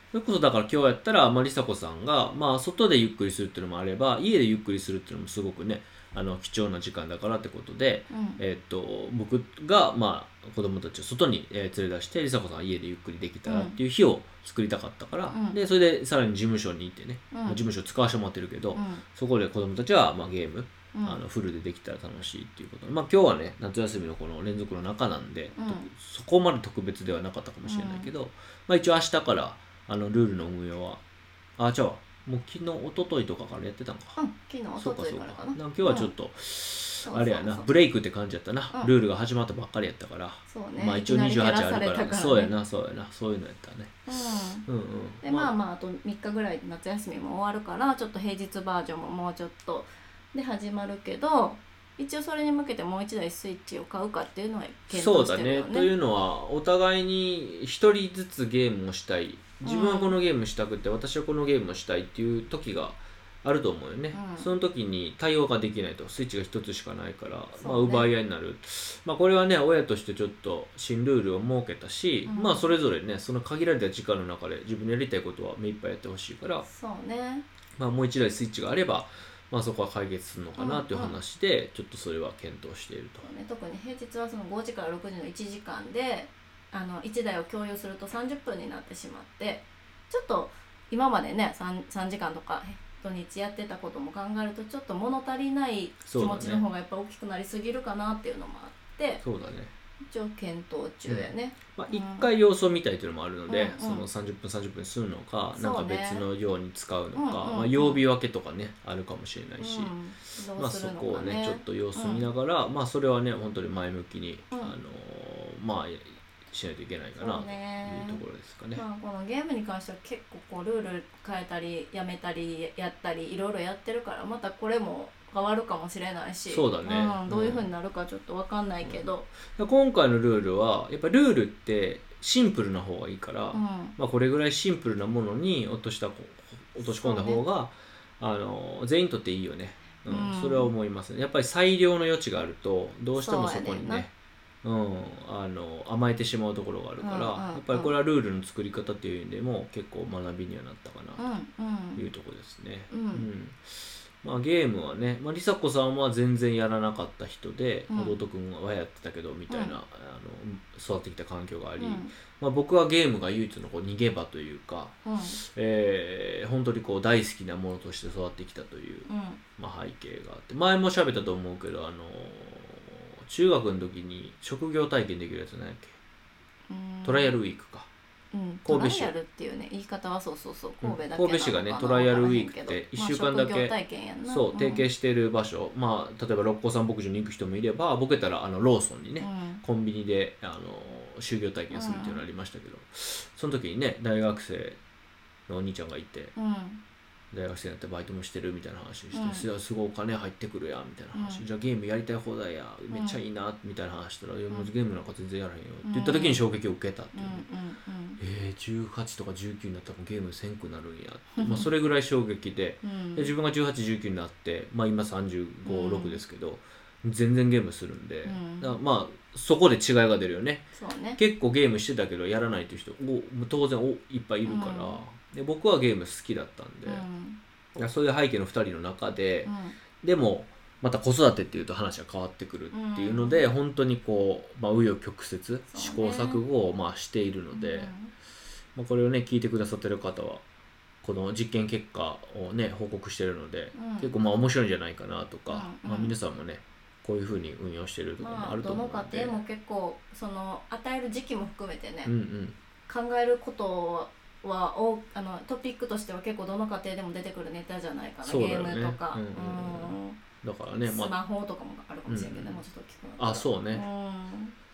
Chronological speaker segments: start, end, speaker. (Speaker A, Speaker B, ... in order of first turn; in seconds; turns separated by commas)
Speaker A: 0.1-31.0, Speaker B: 8.1-8.4, Speaker B: 13.5-13.8, Speaker B: 15.3-15.6, Speaker B: 17.3-17.6, Speaker B: 18.7-19.0, Speaker B: 20.9-21.2, Speaker B: 25.5-25.9, Speaker B: 27.6-28.1, Speaker A: 31.6-34.2, Speaker B: 34.2-36.1, Speaker A: 34.8-44.0, Speaker B: 37.0-37.7, Speaker B: 40.5-42.5, Speaker B: 44.1-44.6, Speaker A: 44.6-45.5, Speaker B: 45.2-55.9, Speaker A: 54.9-76.7, Speaker B: 59.6-60.1, Speaker B: 64.1-64.5, Speaker B: 67.6-68.1, Speaker B: 72.2-72.7, Speaker B: 76.7-77.4, Speaker A: 77.8-83.2, Speaker B: 80.6-81.2, Speaker B: 83.2-99.2, Speaker A: 96.0-96.6, Speaker A: 99.2-99.7, Speaker B: 100.0-102.3, Speaker A: 101.1-118.8, Speaker B: 103.5-104.0, Speaker B: 105.5-106.2, Speaker B: 107.1-108.0, Speaker B: 109.6-112.3, Speaker B: 117.2-118.2, Speaker B: 118.8-129.3, Speaker A: 126.5-127.7, Speaker A: 129.5-144.1, Speaker B: 133.5-133.9, Speaker B: 136.8-137.4, Speaker B: 140.1-140.7, Speaker B: 143.2-144.1, Speaker A: 144.6-151.2, Speaker B: 147.0-147.9, Speaker B: 151.2-152.0, Speaker A: 152.0-176.0, Speaker B: 152.9-153.3, Speaker B: 157.9-158.2, Speaker B: 159.5-159.7, Speaker B: 161.8-162.1, Speaker B: 165.0-165.4, Speaker B: 169.1-169.4, Speaker B: 176.7-177.3, Speaker A: 177.0-177.9, Speaker B: 178.3-184.8, Speaker A: 178.6-179.1, Speaker A: 180.8-183.7, Speaker A: 184.2-194.8, Speaker B: 189.2-189.6, Speaker B: 191.7-192.2, Speaker A: 195.5-196.3, Speaker B: 196.3-196.8, Speaker A: 197.3-207.4, Speaker B: 199.1-199.4, Speaker B: 201.1-201.4, Speaker B: 202.9-203.2, Speaker B: 205.8-206.4, Speaker B: 207.1-208.2, Speaker A: 208.2-220.7, Speaker B: 211.3-211.7, Speaker B: 212.8-213.3, Speaker B: 215.7-216.2, Speaker B: 218.2-218.8, Speaker B: 220.7-221.2, Speaker A: 221.2-227.1, Speaker B: 224.4-225.0, Speaker B: 226.8-227.4, Speaker A: 227.7-237.9, Speaker B: 229.4-229.8, Speaker B: 232.7-233.5, Speaker B: 235.7-236.4, Speaker B: 237.5-238.1, Speaker A: 238.7-240.4, Speaker A: 241.0-249.4, Speaker B: 243.7-244.2, Speaker B: 245.5-246.1, Speaker B: 248.2-252.1, Speaker A: 252.0-252.6, Speaker B: 252.9-260.2, Speaker A: 258.2-261.1, Speaker B: 260.8-264.5, Speaker A: 262.1-262.6, Speaker A: 263.2-263.8